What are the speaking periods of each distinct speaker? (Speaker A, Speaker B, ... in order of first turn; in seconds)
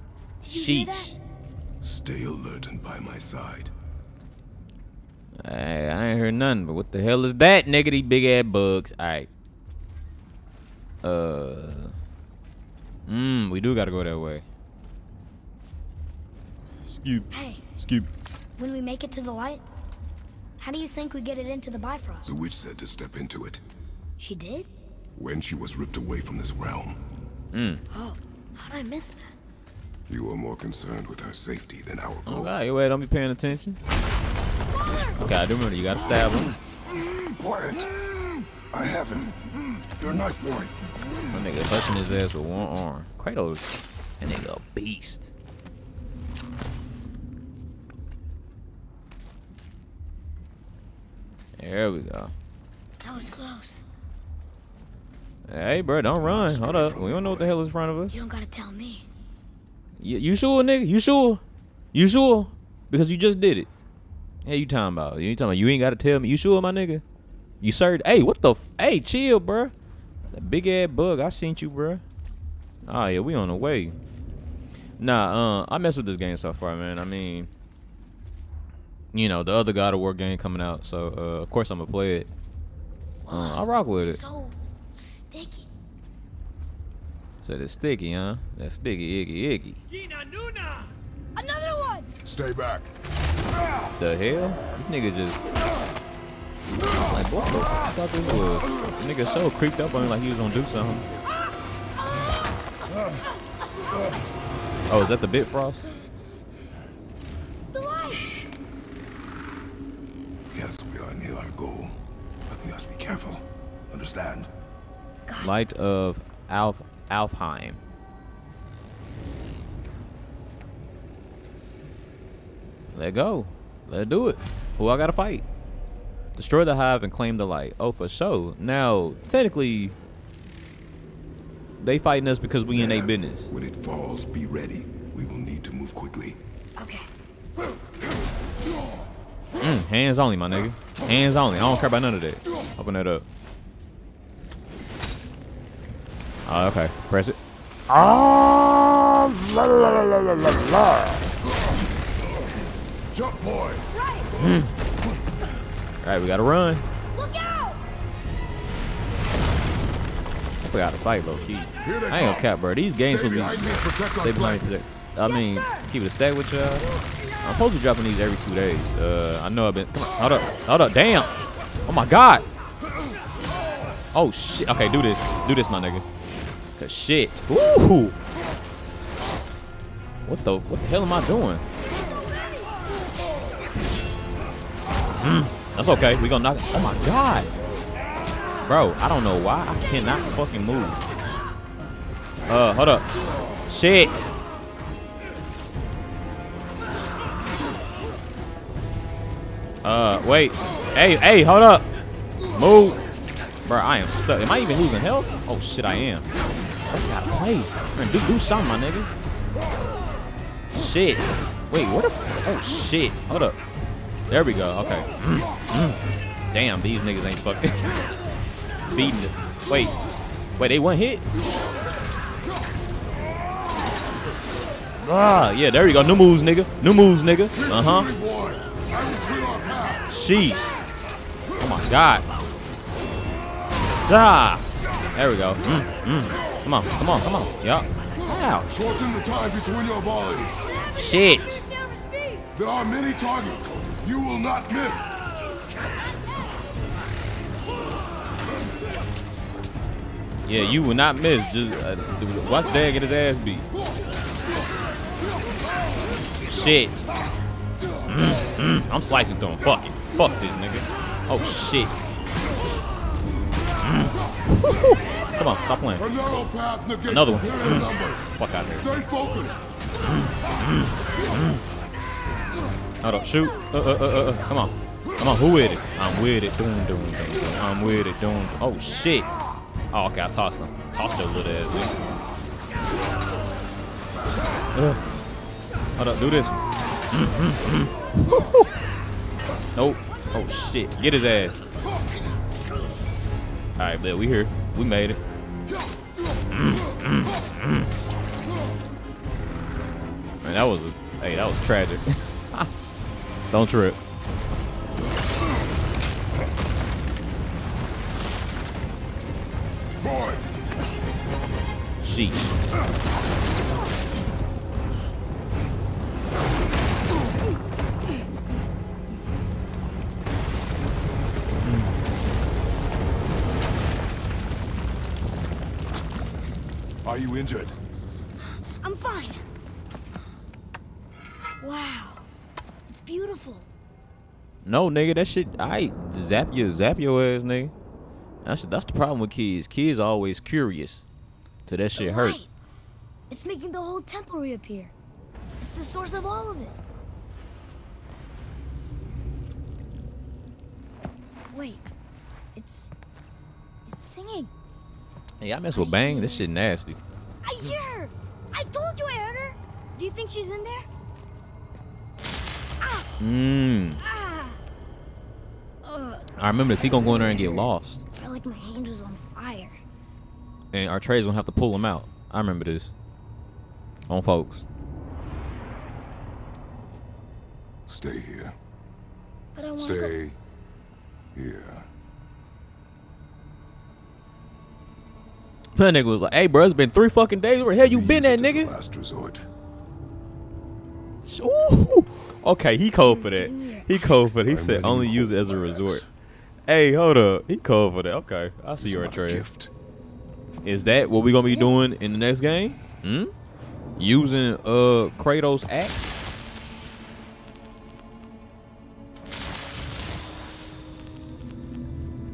Speaker A: 0.4-1.1, 17.3-17.6, 18.6-19.6, 20.6-22.3, 24.2-24.7, 27.9-29.3, 34.7-35.2, 53.0-53.8, 58.1-59.0, 83.3-85.7, 90.2-92.1, 102.1-102.3, 107.7-108.3, 115.2-115.5, 136.8-137.1, 153.9-154.3, 157.1-157.8, 165.2-165.9, 241.1-242.4, 328.4-329.4, 331.6-332.3, 332.9-333.7, 341.9-342.5, 343.3-344.9, 345.6-346.8, 351.5-351.8, 352.5-352.9, 353.9-354.5, 355.7-356.5, 357.4-360.9, 364.0-364.6, 365.8-366.3, 368.1-369.8, 379.5-380.1, 393.0-394.3, 401.4-401.8
Speaker B: 0.5-1.1, 5.4-9.3, 11.0-11.9, 13.1-14.4, 16.9-18.1, 27.5-27.8, 32.2-33.8, 35.1-36.5, 41.3-45.3, 51.6-52.3, 55.5-58.1, 60.0-61.4, 61.9-63.7, 64.4-67.0, 67.6-69.7, 70.3-72.0, 72.8-74.0, 75.0-77.5, 79.1-82.3, 83.3-84.2, 87.4-89.8, 94.0-95.4, 97.0-101.0, 104.9-105.8, 115.4-117.8, 122.9-125.4, 126.3-129.9, 131.8-133.5, 139.6-143.2, 146.4-151.2, 154.4-154.7, 156.0-156.8, 160.6-166.9, 167.4-171.3, 171.8-172.4, 174.1-176.1, 176.8-178.2, 180.2-181.6, 185.2-187.5, 188.6-191.0, 192.5-193.1, 193.7-194.3, 199.8-201.9, 202.5-203.0, 203.6-206.3, 206.9-209.1, 210.7-213.6, 214.3-216.0, 216.5-218.0, 218.9-219.9, 220.6-221.3, 225.0-228.1, 230.1-230.7, 231.6-232.2, 234.0-238.7, 240.9-241.6, 250.4-253.7, 256.5-257.1, 258.1-261.9, 263.8-266.1, 267.1-269.1, 270.0-271.6, 273.0-279.3, 279.9-281.9, 284.7-285.0, 286.0-286.6, 287.1-288.7, 289.7-291.6, 293.8-295.2, 296.5-297.9, 300.4-302.7, 303.5-304.0, 312.0-312.5, 321.6-322.0, 334.6-337.7, 338.4-341.1, 341.6-342.4, 355.4-357.0, 363.2-364.0, 366.4-368.0, 370.7-372.9, 374.1-374.6, 385.8-388.7, 391.2-396.1, 396.7-399.4, 400.6-403.3, 404.0-406.1
Speaker C: 1.8-3.7, 22.2-23.6, 25.1-27.0, 30.1-32.5, 35.9-36.4, 36.9-40.7, 56.2-57.5, 92.2-92.9, 108.0-108.5, 110.5-114.5, 132.8-136.4, 153.1-153.9, 161.8-162.5, 163.0-164.7, 227.6-230.1, 238.7-240.6, 242.5-245.2, 266.0-269.6, 310.0-310.4, 327.0-327.8, 377.9-378.5, 379.8-380.4, 381.3-381.9, 387.8-389.4, 394.3-396.1, 398.8-399.7